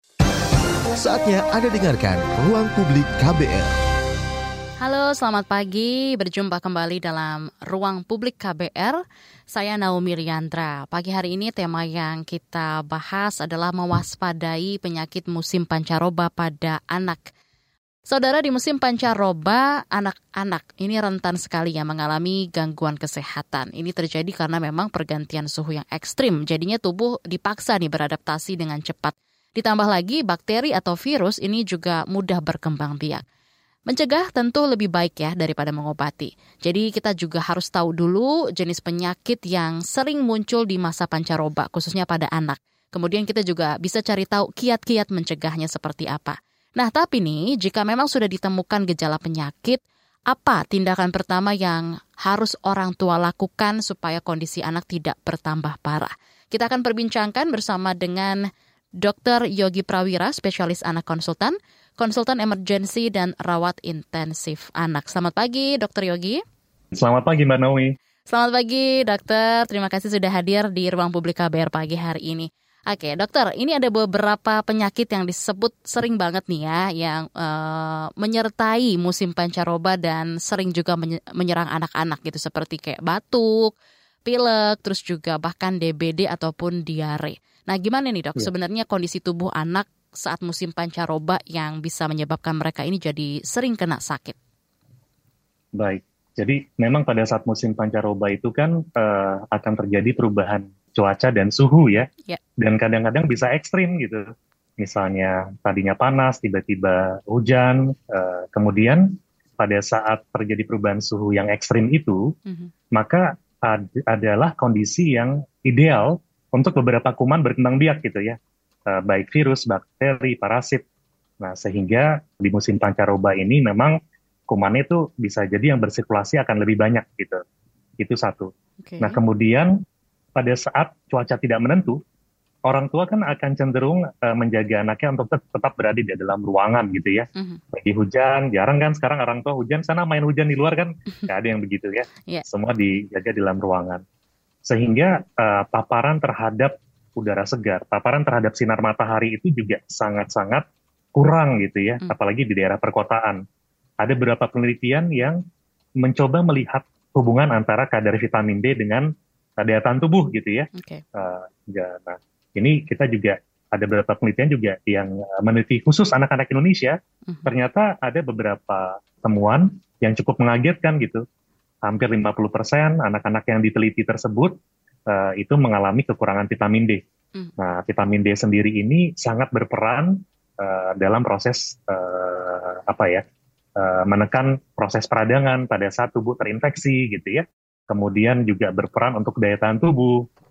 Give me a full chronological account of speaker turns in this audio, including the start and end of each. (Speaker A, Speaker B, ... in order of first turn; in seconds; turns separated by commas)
Speaker A: 0.9-3.8, Speaker B: 4.8-9.0, Speaker B: 9.5-17.2, Speaker B: 18.1-33.2, Speaker B: 33.9-58.4, Speaker B: 59.0-66.4, Speaker C: 66.9-67.9, Speaker B: 68.3-83.7, Speaker B: 84.2-94.3, Speaker C: 95.8-104.2, Speaker C: 104.8-112.2, Speaker C: 112.9-118.4, Speaker C: 118.9-120.8, Speaker C: 121.4-124.0, Speaker C: 124.5-127.4, Speaker C: 128.0-129.7, Speaker B: 128.8-129.2, Speaker C: 130.3-132.0, Speaker C: 132.7-144.0, Speaker B: 137.3-137.6, Speaker C: 144.6-153.4, Speaker C: 154.0-155.4, Speaker C: 156.0-159.1, Speaker C: 159.6-171.2, Speaker B: 160.7-161.0, Speaker C: 171.8-174.6, Speaker C: 175.1-177.0, Speaker C: 177.6-183.2, Speaker C: 183.8-190.2